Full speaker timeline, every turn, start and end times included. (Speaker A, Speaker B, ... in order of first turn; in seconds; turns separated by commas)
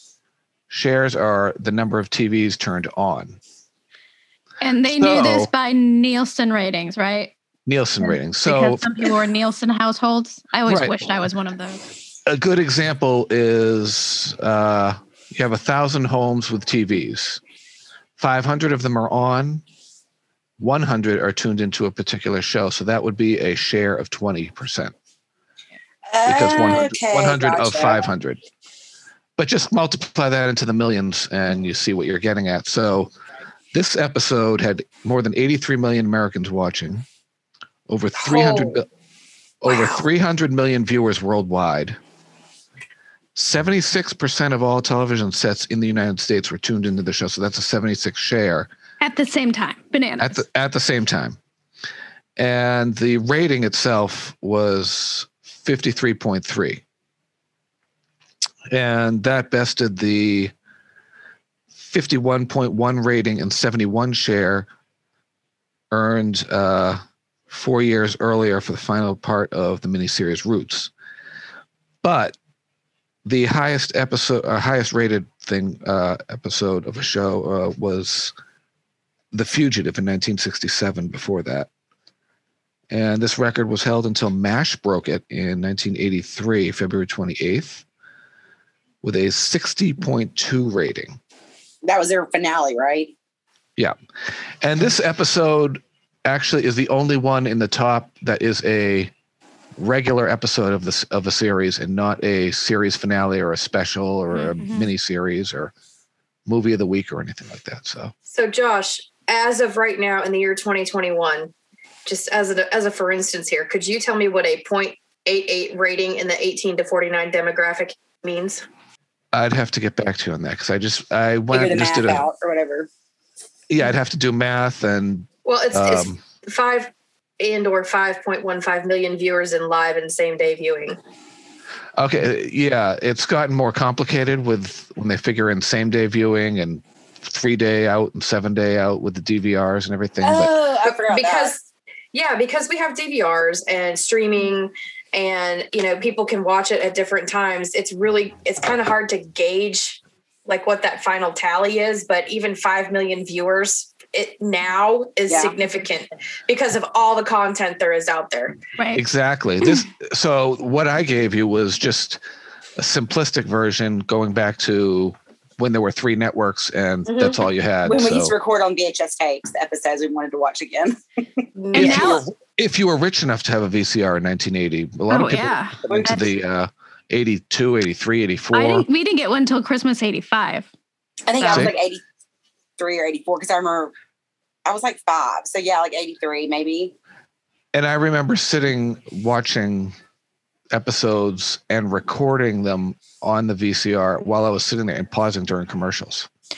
Speaker A: 0.7-3.4, Speaker B: 4.6-7.3, Speaker A: 4.8-5.5, Speaker A: 7.7-8.9, Speaker B: 8.0-11.8, Speaker A: 10.7-11.0, Speaker A: 12.3-17.4, Speaker A: 18.2-19.6, Speaker A: 20.6-24.9, Speaker C: 26.1-28.0, Speaker A: 26.2-28.4, Speaker A: 29.4-33.1, Speaker A: 33.7-37.0, Speaker A: 37.9-38.9, Speaker A: 39.6-42.0, Speaker A: 43.4-48.7, Speaker B: 49.0-50.4, Speaker A: 50.2-51.4, Speaker A: 52.4-56.8, Speaker A: 58.7-60.5, Speaker A: 61.8-64.7, Speaker A: 65.9-70.9, Speaker A: 72.0-72.4, Speaker A: 73.2-78.3, Speaker A: 79.3-81.7, Speaker A: 82.9-87.8, Speaker A: 89.0-91.2, Speaker C: 91.8-93.1, Speaker A: 94.6-99.1, Speaker A: 99.8-105.7, Speaker B: 104.3-104.9, Speaker A: 106.5-108.1, Speaker D: 108.3-111.5, Speaker D: 112.1-118.6, Speaker A: 119.3-122.3, Speaker C: 121.5-122.9, Speaker A: 123.7-126.2, Speaker D: 125.5-131.0, Speaker A: 132.0-140.6, Speaker C: 140.2-141.5, Speaker D: 140.9-158.6, Speaker C: 155.3-155.6, Speaker B: 158.8-159.1, Speaker A: 158.9-162.2, Speaker A: 162.8-168.4, Speaker D: 167.1-167.4, Speaker C: 167.8-171.0, Speaker D: 171.6-172.2, Speaker B: 171.7-172.2, Speaker A: 171.7-178.9, Speaker B: 175.1-176.2, Speaker C: 175.9-176.2, Speaker B: 178.5-180.7, Speaker C: 181.3-182.0, Speaker B: 181.4-181.7, Speaker A: 181.4-181.8, Speaker C: 182.8-183.9, Speaker C: 184.7-186.9, Speaker A: 187.7-190.0, Speaker A: 190.7-196.3